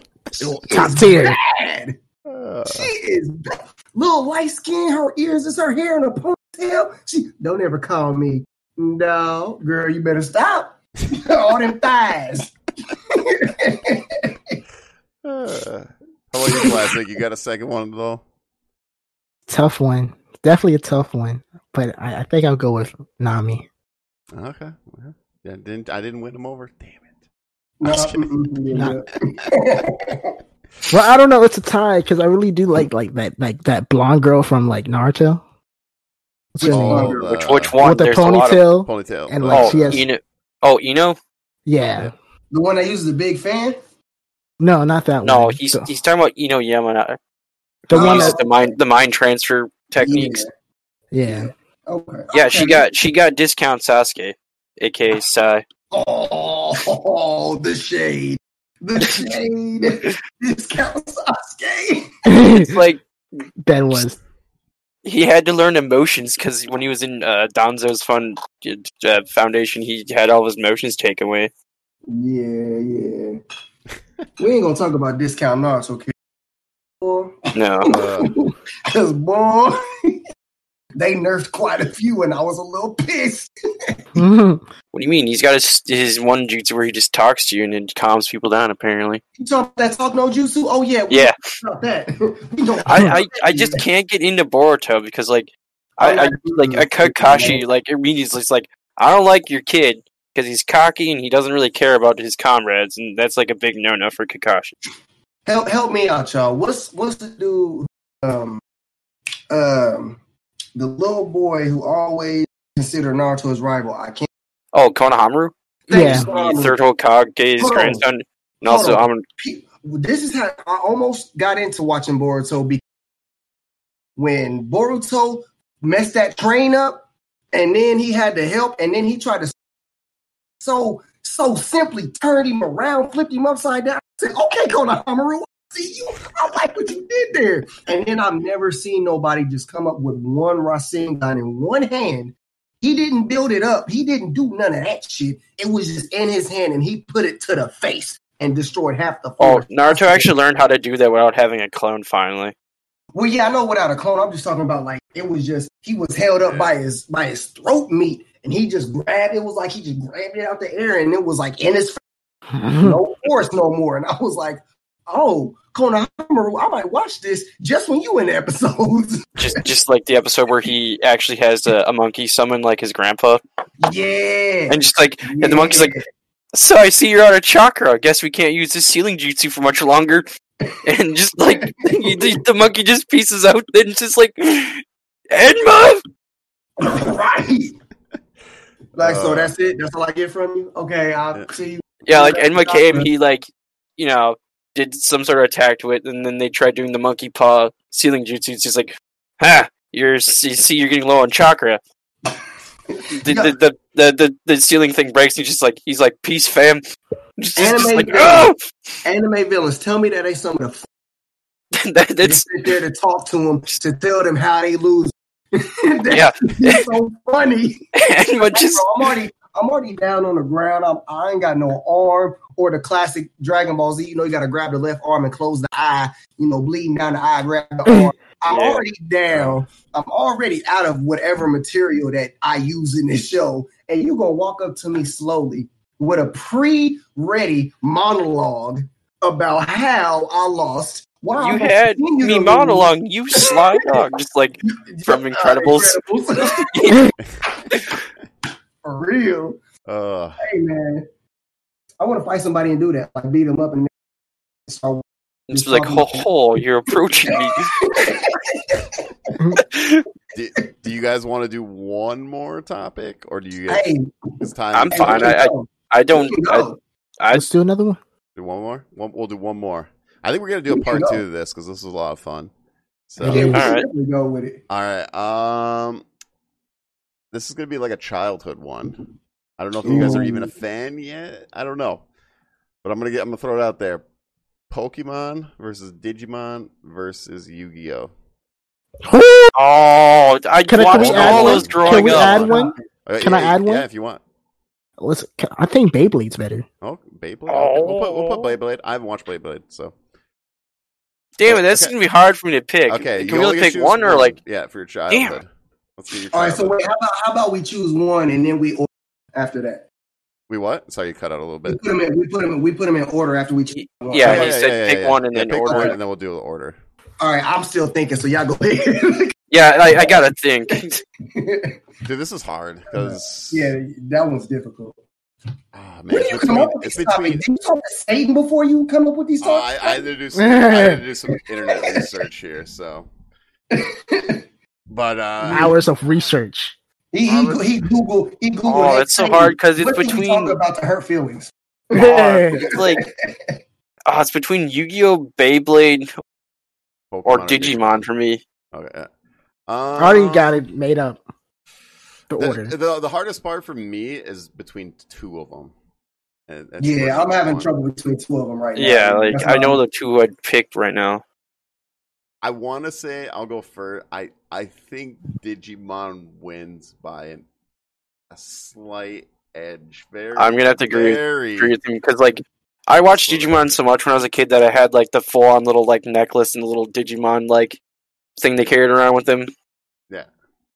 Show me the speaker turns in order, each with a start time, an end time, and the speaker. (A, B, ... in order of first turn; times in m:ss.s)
0:00.4-0:02.0 A
0:00.7-0:01.4 B
0:02.3-0:02.9 C
0:02.7-0:12.5 A
0:13.1-0:14.6 A
0:15.2-0:18.2 C
0:19.5-0:23.6 B
0:24.3-0:27.1 C
0:27.8-0:30.4 A
0:27.8-0:28.3 C
0:30.9-0:35.4 B
0:36.5-0:37.2 B
0:36.6-0:37.3 A
0:36.6-0:37.8 C
0:37.3-0:38.6 D
0:37.8-0:40.0 B
0:38.8-0:40.0 C
0:39.5-0:41.2 D
0:41.6-0:42.1 B
0:42.5-0:43.8 A
0:44.6-0:45.9 B
0:45.2-0:47.2 D
0:47.9-0:48.4 B
0:47.9-0:48.7 A
0:47.9-0:50.4 D
0:50.0-0:50.5 A
0:51.1-0:51.5 B
0:51.2-0:52.8 A
0:52.3-0:55.6 D
0:55.9-1:02.1 A
1:02.2-1:02.8 B
1:02.6-1:03.0 D
1:03.6-1:04.2 B
1:05.0-1:11.5 D
1:12.1-1:13.4 A
1:14.4-1:16.1 A
1:17.0-1:20.2 A
1:17.5-1:17.9 D
1:17.9-1:18.4 C
1:21.0-1:24.0 A
1:24.2-1:24.6 B
1:24.9-1:29.2 D
1:29.4-1:33.8 A
1:31.1-1:31.4 D
1:32.8-1:44.7 D
1:36.0-1:37.6 A
1:45.4-1:48.6 A
1:49.5-1:50.2 A
1:50.7-1:54.3 A
1:54.7-1:59.2 D
1:55.9-1:56.8 A
1:55.9-1:56.3 B
1:57.6-1:58.0 A
1:58.6-2:02.8 A
2:04.2-2:09.5 A
2:10.6-2:30.3 A
2:29.4-2:32.5 D
2:33.1-2:42.0 A
2:36.4-2:36.7 C
2:42.6-2:43.0 B
2:42.8-2:49.4 A
2:49.4-2:53.4 D
2:53.8-2:56.0 A
2:54.7-2:55.9 D
2:56.5-3:00.2 D
3:00.8-3:06.0 D
3:01.6-3:02.4 A
3:06.8-3:07.8 A
3:09.0-3:13.1 A
3:09.0-3:09.5 C
3:12.0-3:21.8 D
3:22.9-3:23.5 A
3:23.1-3:26.8 D
3:27.4-3:28.6 D
3:27.6-3:28.5 A
3:29.0-3:30.9 A
3:31.7-3:32.5 D
3:32.2-4:03.6 A
3:36.1-3:36.9 D
3:37.9-3:38.8 D
3:48.5-3:48.8 D
3:49.3-3:49.6 C
4:01.4-4:07.1 D
4:04.6-4:07.1 A
4:07.7-4:08.0 D
4:08.8-4:09.6 A
4:09.8-4:10.4 C
4:10.4-4:11.0 A
4:12.0-4:13.9 A
4:14.7-4:16.3 A
4:15.5-4:17.7 D
4:17.3-4:19.5 A
4:19.6-4:20.0 D
4:20.3-4:25.4 C
4:23.7-4:26.8 A
4:24.7-4:26.7 D
4:27.2-4:27.4 D
4:27.3-4:28.0 B
4:28.4-4:32.5 C
4:30.7-4:31.2 A
4:33.1-4:33.6 C
4:33.2-4:33.6 B
4:33.2-4:34.6 A
4:33.5-4:33.9 D
4:34.7-4:36.0 C
4:37.3-4:39.0 C
4:39.6-4:42.0 C
4:39.8-4:40.5 A
4:42.8-4:44.0 C
4:44.7-4:48.1 C
4:49.0-4:49.5 B
4:49.5-4:52.5 D
4:50.7-4:53.8 B
4:50.8-4:54.2 C
4:52.4-4:52.8 A
4:55.0-4:56.6 B
4:56.8-4:59.9 C
4:57.5-4:58.5 D
5:01.4-5:04.4 D
5:01.4-5:01.9 C
5:02.9-5:06.8 C
5:05.1-5:05.4 D
5:06.3-5:09.8 A
5:10.5-5:11.8 C
5:11.7-5:14.5 A
5:13.7-5:16.0 D
5:14.2-5:16.8 C
5:15.6-5:16.0 A
5:17.2-5:20.8 A
5:19.5-5:21.0 D
5:21.3-5:21.8 A
5:22.0-5:23.7 C
5:22.9-5:25.0 A
5:25.7-5:27.4 C
5:26.1-5:30.1 A
5:29.4-5:33.1 C
5:30.4-5:31.0 B
5:31.6-5:32.0 A
5:33.7-5:34.4 A
5:34.9-5:36.3 C
5:35.4-5:35.8 A
5:35.5-5:36.7 B
5:37.1-5:43.3 A
5:37.2-5:37.9 C
5:38.6-5:40.6 D
5:41.9-5:42.6 B
5:41.9-5:43.0 D
5:44.1-5:46.1 D
5:47.1-5:48.0 C
5:47.2-5:48.4 D
5:48.7-5:49.1 C
5:49.7-5:50.5 C
5:50.0-5:51.2 B
5:52.3-5:52.7 B
5:52.4-5:55.7 C
5:56.5-5:57.7 C
5:56.8-5:59.8 A
5:58.8-6:01.2 D
6:02.4-6:07.4 C
6:08.3-6:11.8 C
6:10.4-6:17.8 D
6:13.1-6:13.7 C
6:18.4-6:19.5 D